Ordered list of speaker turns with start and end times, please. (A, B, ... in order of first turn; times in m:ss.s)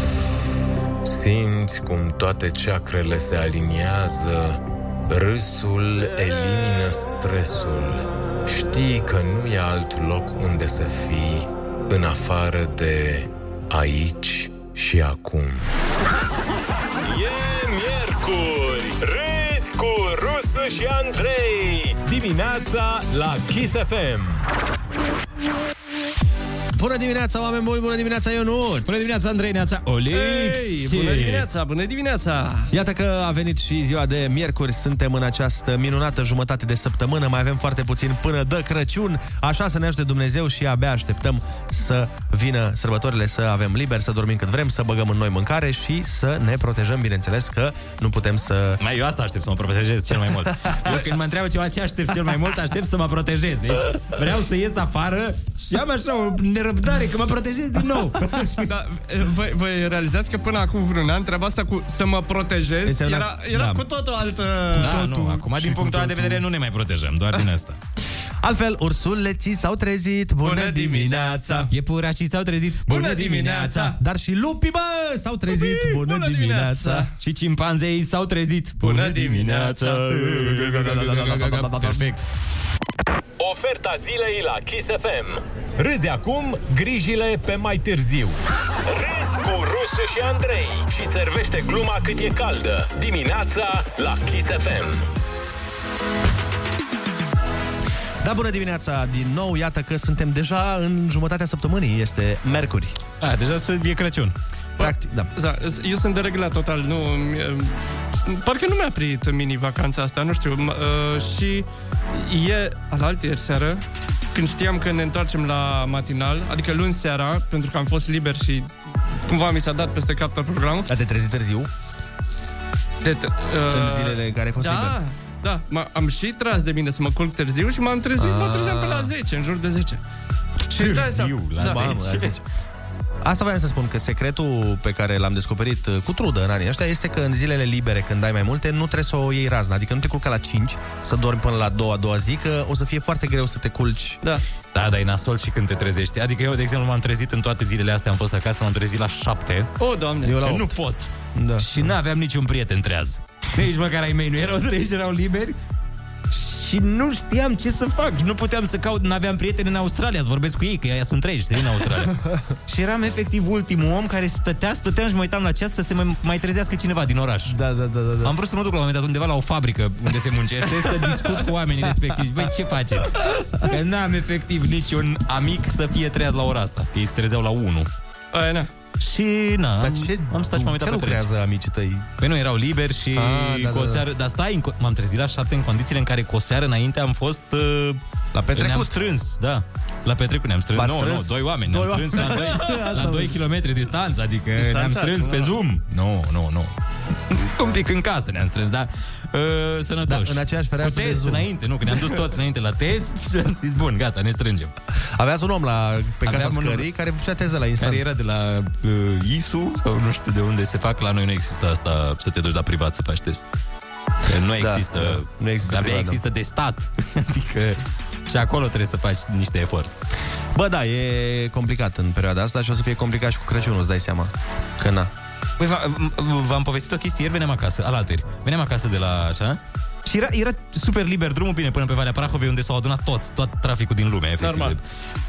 0:01.0-0:15.7 A
0:17.0-0:24.4 B
0:26.7-0:29.0 C
0:28.8-0:31.5 D
0:30.1-0:32.7 E
0:32.7-0:48.8 C
0:48.8-0:58.7 D
0:58.6-1:04.9 E
1:02.8-1:03.8 C
1:04.7-1:06.4 C
1:04.7-1:07.8 D
1:08.4-1:11.7 C
1:10.4-1:11.7 E
1:11.7-1:14.0 D
1:12.9-1:14.0 E
1:14.0-1:17.1 C
1:15.5-1:17.1 E
1:17.2-1:22.2 D
1:18.8-1:20.5 E
1:20.2-1:22.0 C
1:23.4-1:35.0 B
1:38.2-1:43.0 C
1:43.2-1:44.4 D
1:44.8-1:58.7 E
1:44.8-1:45.3 C
1:59.3-2:00.9 E
2:00.9-2:01.7 C
2:03.0-2:10.0 E
2:03.7-2:05.0 C
2:08.2-2:09.1 C
2:10.7-2:12.4 D
2:10.7-2:12.0 E
2:11.6-2:12.4 C
2:13.2-2:24.2 C
2:24.7-2:29.7 D
2:29.8-2:30.4 E
2:30.2-2:30.8 C
2:30.3-2:35.6 D
2:31.4-2:31.8 C
2:36.3-2:42.2 D
2:42.7-2:47.6 D
2:47.5-2:48.3 C
2:48.2-2:57.9 D
2:51.0-2:51.3 C
2:58.3-2:58.7 E
2:59.0-3:01.3 D
2:59.8-3:02.1 C
3:02.2-3:08.0 D
3:03.2-3:04.0 C
3:08.3-3:08.9 C
3:08.5-3:16.8 D
3:10.7-3:13.4 C
3:14.6-3:15.6 E
3:17.3-3:24.7 D
3:20.1-3:21.5 C
3:25.2-3:28.0 C
3:26.2-3:26.9 D
3:27.8-3:33.5 D
3:34.3-3:39.9 D
3:34.6-3:36.2 C
3:40.6-3:45.1 C
3:45.6-3:54.8 D
3:54.4-3:54.8 E